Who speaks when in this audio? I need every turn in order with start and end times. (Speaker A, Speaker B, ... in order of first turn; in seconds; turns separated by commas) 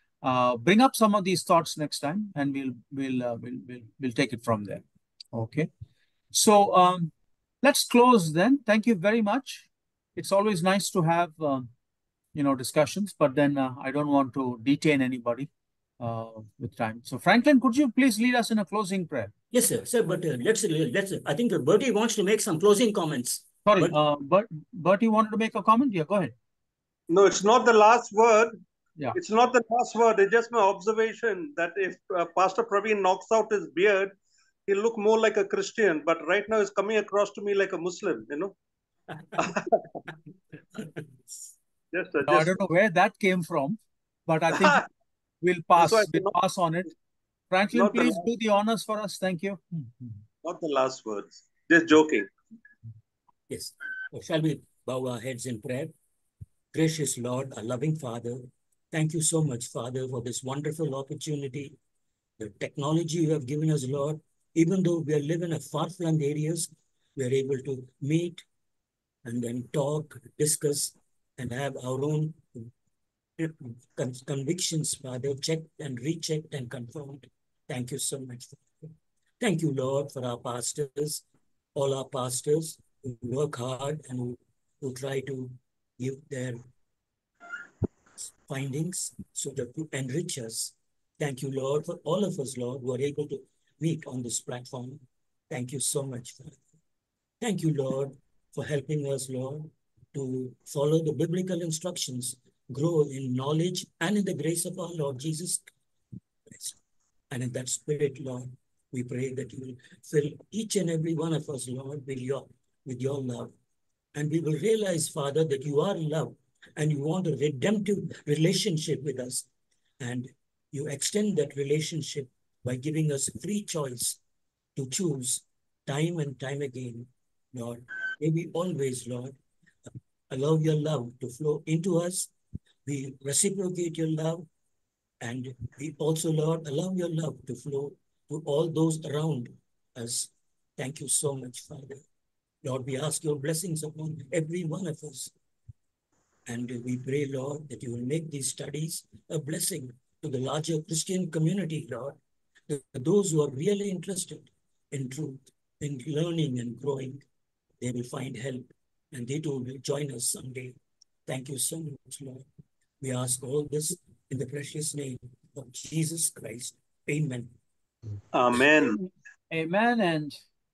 Speaker A: 0.2-5.7, Speaker A: 6.3-11.7, Speaker A: 12.3-19.3, Speaker B: 19.5-24.0, Speaker A: 23.7-26.3, Speaker C: 27.1-28.5, Speaker C: 29.1-34.1, Speaker C: 34.7-38.5, Speaker C: 39.4-40.0, Speaker C: 41.9-42.5, Speaker A: 42.3-44.8, Speaker C: 44.6-44.8, Speaker A: 45.4-46.9, Speaker C: 45.8-46.4, Speaker A: 47.5-50.2, Speaker C: 47.7-48.2, Speaker C: 50.4-52.3, Speaker B: 53.5-55.9, Speaker B: 56.7-61.8, Speaker B: 62.4-68.4, Speaker B: 69.2-72.7, Speaker B: 73.4-81.2, Speaker B: 81.8-86.6, Speaker B: 88.2-96.6, Speaker B: 97.4-105.7, Speaker B: 106.5-106.8, Speaker B: 107.3-113.5, Speaker B: 114.2-119.5, Speaker B: 120.0-124.2, Speaker B: 124.8-129.4, Speaker B: 130.3-132.3, Speaker B: 132.8-134.5, Speaker B: 135.2-142.0, Speaker B: 142.6-145.3, Speaker B: 146.5-152.2, Speaker B: 152.7-157.2, Speaker B: 157.8-162.4, Speaker B: 163.0-167.5, Speaker C: 168.3-169.0, Speaker A: 169.5-170.4